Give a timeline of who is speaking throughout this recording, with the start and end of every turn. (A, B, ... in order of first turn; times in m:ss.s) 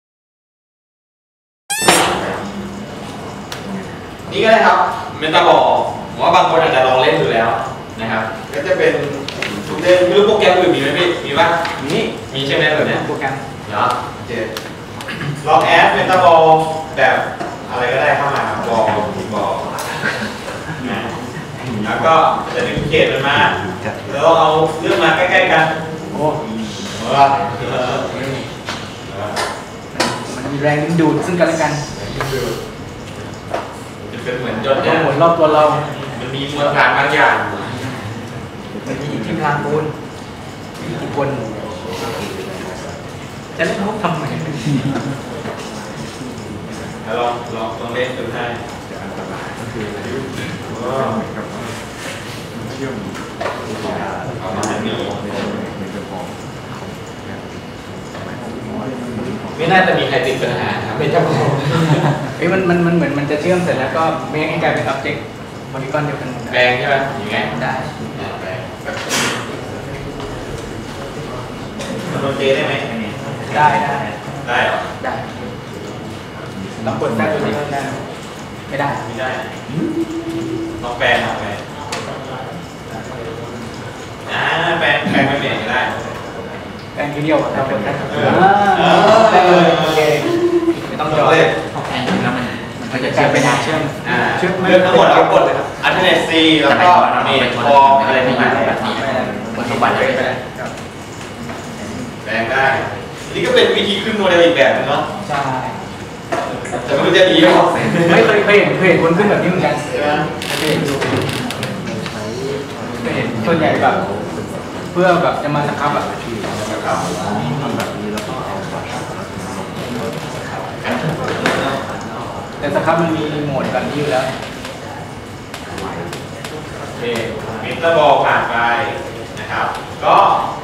0:04.3-0:11.6 A
0:11.8-0:13.4 B
0:12.3-0:13.0 A
0:13.6-0:14.5 A
0:15.4-0:19.7 A
0:20.8-0:21.1 A
0:21.8-0:25.8 A
0:26.1-0:26.4 B
0:26.9-0:28.1 A
0:28.1-0:28.5 B
0:29.1-0:29.4 A
0:29.9-0:31.8 B
0:31.9-0:32.6 A
0:34.1-0:35.1 A
0:34.8-0:35.8 B
0:36.1-0:37.8 A
0:38.8-0:39.9 B
0:40.8-0:41.6 B
0:43.5-0:44.8 B
0:47.0-0:48.6 A
0:50.6-0:51.2 A
0:54.4-0:55.3 A
0:59.5-1:02.2 A
1:02.4-1:06.6 B
1:06.5-1:07.5 A
1:07.2-1:07.9 B
1:08.1-1:09.0 A
1:12.0-1:12.9 A
1:13.4-1:14.2 B
1:14.4-1:14.8 A
1:15.0-1:15.3 B
1:16.8-1:18.0 B
1:18.7-1:19.0 B
1:19.0-1:19.5 A
1:20.8-1:21.6 A
1:24.3-1:25.9 A
1:26.9-1:31.5 B
1:28.1-1:30.3 A
1:31.0-1:31.6 A
1:31.7-1:33.6 C
1:32.8-1:35.4 B
1:34.0-1:38.9 A
1:36.7-1:40.2 C
1:38.4-1:40.7 B
1:42.2-1:45.0 A
1:45.2-1:45.8 B
1:46.8-1:48.3 A
1:48.1-1:49.8 B
1:49.8-1:50.3 A
1:50.4-1:50.9 B
1:53.0-1:54.0 B
1:54.9-1:56.1 B
1:56.5-1:57.6 A
2:01.3-2:01.8 A
2:02.6-2:04.3 B
2:07.0-2:10.4 A